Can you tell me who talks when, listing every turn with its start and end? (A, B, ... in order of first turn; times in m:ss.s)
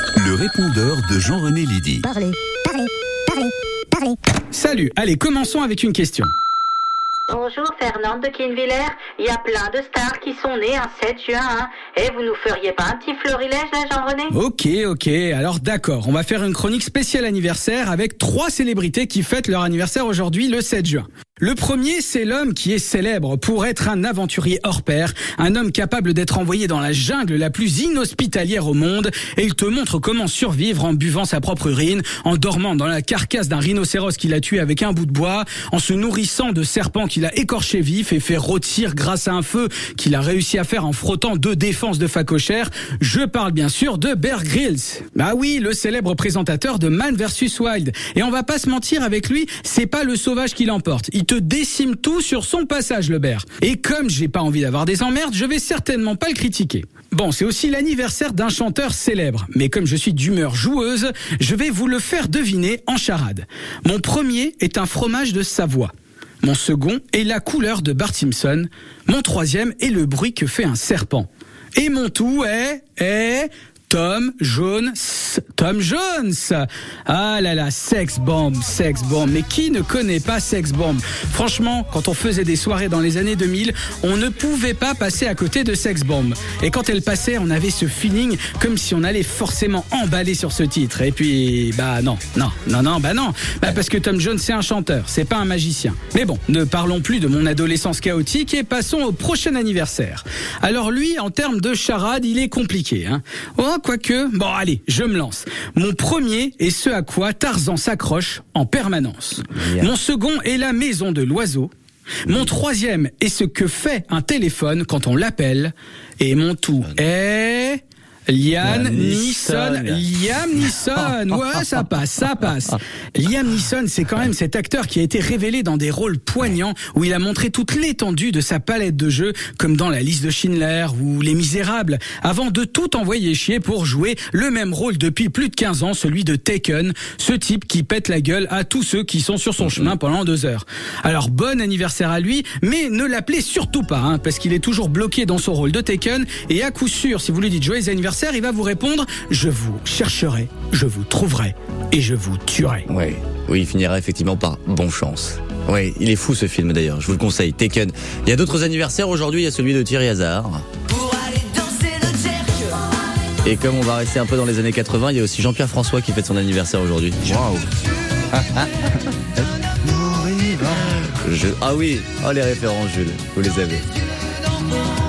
0:00.2-0:02.0 A
0:02.0-0:04.2 B
0:04.5-0:06.3 C
0:07.3-0:14.4 D
0:14.3-1:05.9 C
1:06.4-1:51.7 C
1:49.6-1:49.9 E
1:52.3-2:32.9 C
1:58.6-2:00.1 E
2:32.9-2:40.6 E
2:41.0-2:42.6 B
2:43.4-2:47.5 E
2:47.4-2:47.6 A
2:48.4-2:48.6 E
2:49.8-2:50.8 A
2:51.2-2:53.8 E